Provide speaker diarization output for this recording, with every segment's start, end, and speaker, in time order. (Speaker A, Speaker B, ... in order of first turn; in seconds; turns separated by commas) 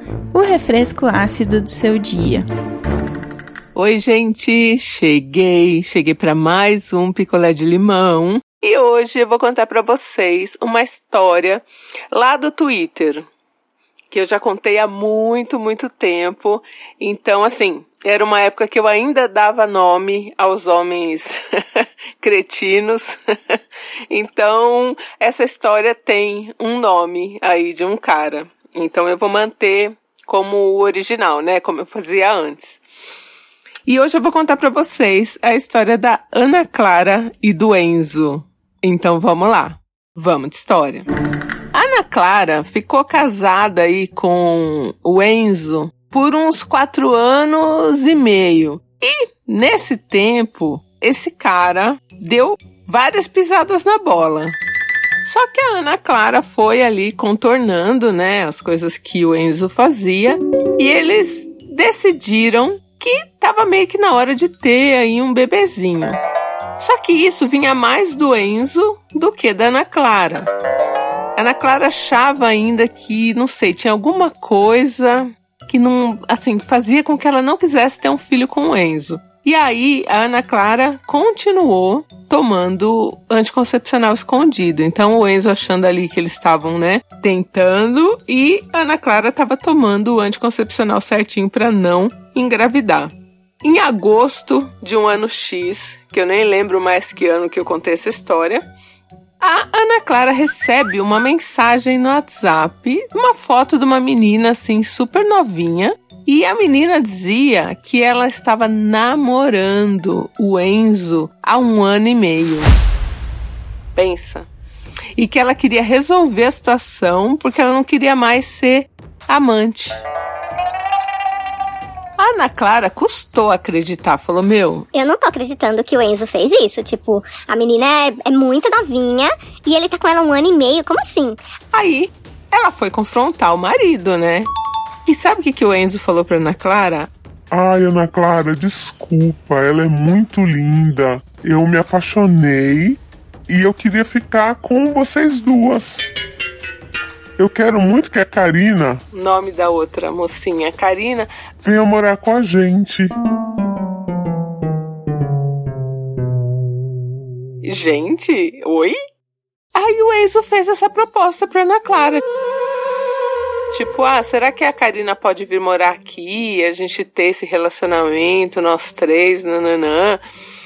Speaker A: 0.3-2.5, Speaker B: 3.7-13.2, Speaker B: 14.1-23.6, Speaker B: 24.1-32.8, Speaker B: 33.8-41.0, Speaker B: 41.7-54.5, Speaker B: 55.2-66.2, Speaker B: 66.8-70.5, Speaker B: 71.3-98.6, Speaker B: 99.4-112.7, Speaker B: 113.9-114.5, Speaker B: 115.2-120.0, Speaker B: 122.2-124.9, Speaker C: 124.9-131.4, Speaker B: 131.7-134.5, Speaker B: 135.1-137.1, Speaker D: 137.5-143.0, Speaker D: 143.5-146.0, Speaker D: 147.4-149.0, Speaker B: 149.1-151.3, Speaker D: 151.6-153.1, Speaker B: 157.6-159.0, Speaker B: 159.7-162.2, Speaker B: 163.7-170.2